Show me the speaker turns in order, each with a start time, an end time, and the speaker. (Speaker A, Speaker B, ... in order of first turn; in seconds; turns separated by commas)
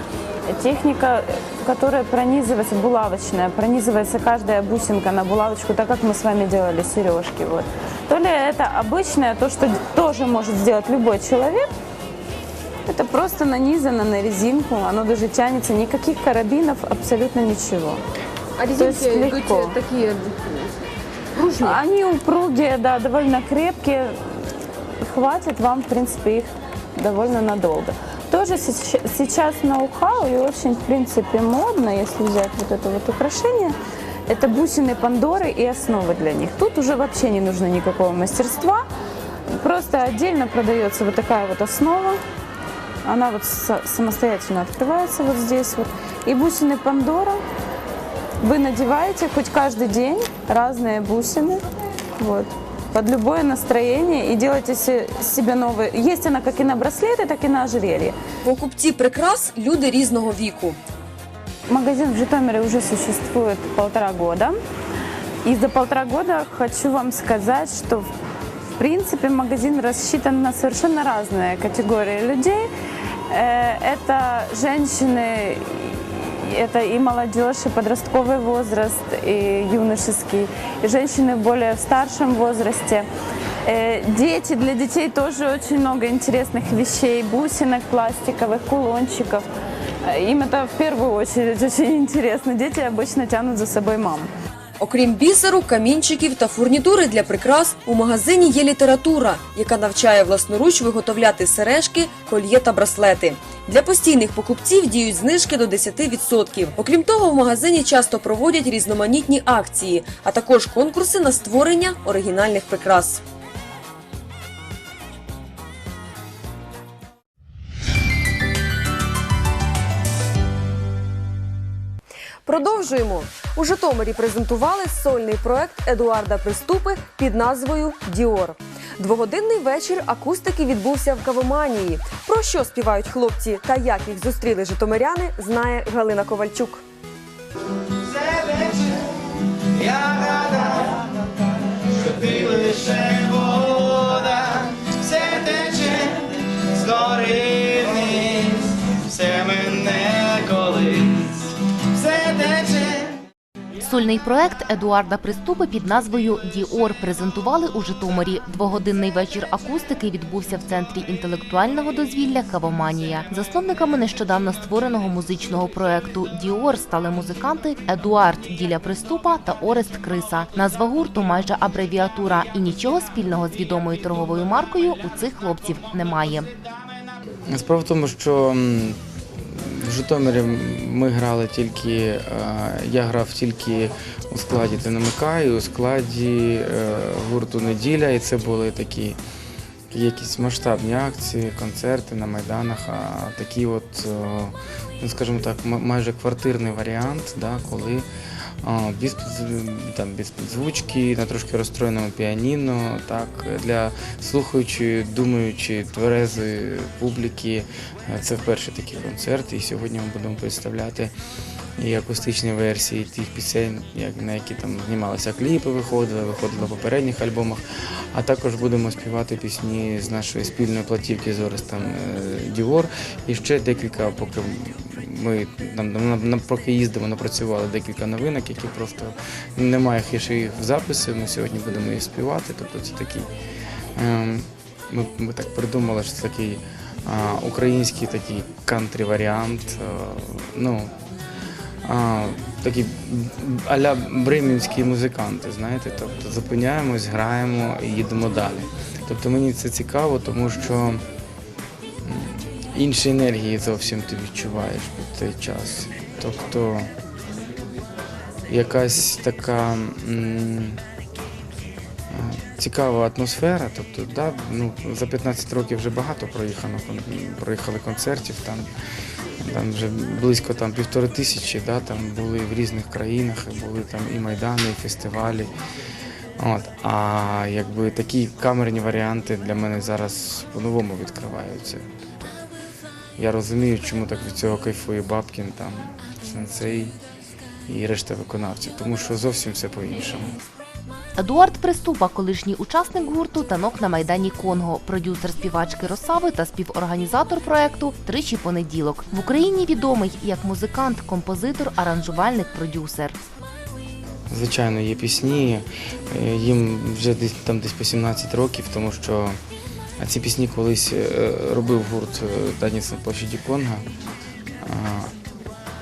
Speaker A: 0.5-11.7, Speaker A: 12.9-18.0, Speaker B: 18.6-20.7, Speaker A: 18.8-19.8, Speaker B: 21.4-21.8, Speaker A: 21.6-24.4, Speaker A: 25.0-33.8, Speaker A: 34.3-38.9, Speaker A: 39.5-42.2, Speaker A: 43.0-47.4, Speaker A: 48.4-51.6, Speaker A: 52.2-58.1, Speaker B: 58.4-60.8, Speaker A: 61.7-64.6, Speaker A: 65.4-68.1, Speaker A: 68.8-72.7, Speaker A: 73.3-83.1, Speaker A: 83.6-89.5, Speaker A: 90.0-94.3, Speaker B: 94.8-113.2, Speaker B: 122.5-136.8, Speaker C: 138.0-139.1, Speaker C: 139.7-153.1, Speaker D: 153.8-176.5, Speaker E: 177.5-189.2, Speaker E: 189.9-198.1, Speaker E: 198.6-211.1, Speaker E: 211.8-217.6, Speaker E: 218.1-233.3, Speaker E: 234.0-240.9, Speaker E: 241.8-251.0, Speaker E: 252.0-256.9, Speaker E: 258.5-260.8, Speaker E: 262.1-268.7, Speaker E: 269.4-275.5, Speaker E: 276.4-282.4, Speaker E: 283.2-286.9, Speaker E: 287.7-290.3, Speaker D: 291.2-303.2, Speaker E: 304.3-309.4, Speaker E: 310.0-313.9, Speaker E: 314.6-315.1